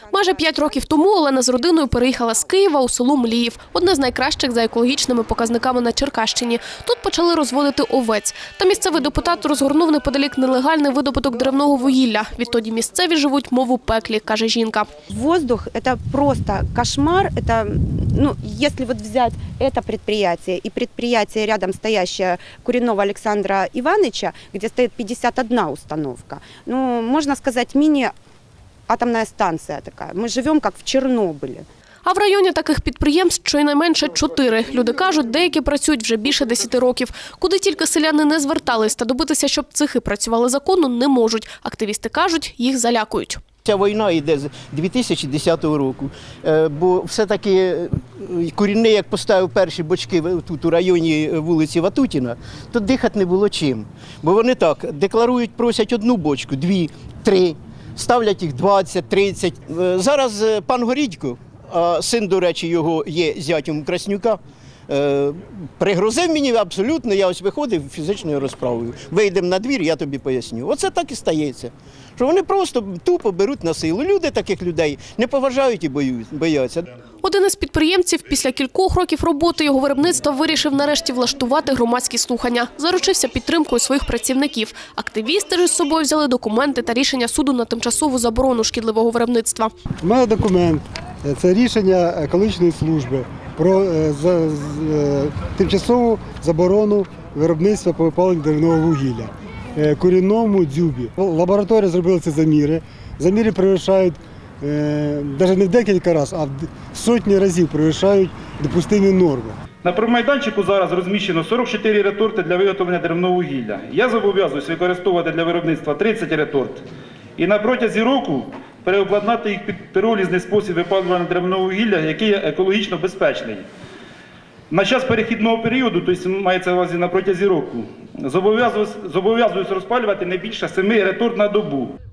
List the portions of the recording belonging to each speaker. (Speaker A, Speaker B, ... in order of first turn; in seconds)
Speaker A: 0.1-14.9, 32.0-43.4, 77.2-89.7
Speaker B: 15.4-28.1, 28.9-31.6
Speaker C: 43.6-76.9
Speaker D: 90.0-109.5
Speaker E: 109.8-116.8, 117.4-123.7, 124.7-131.9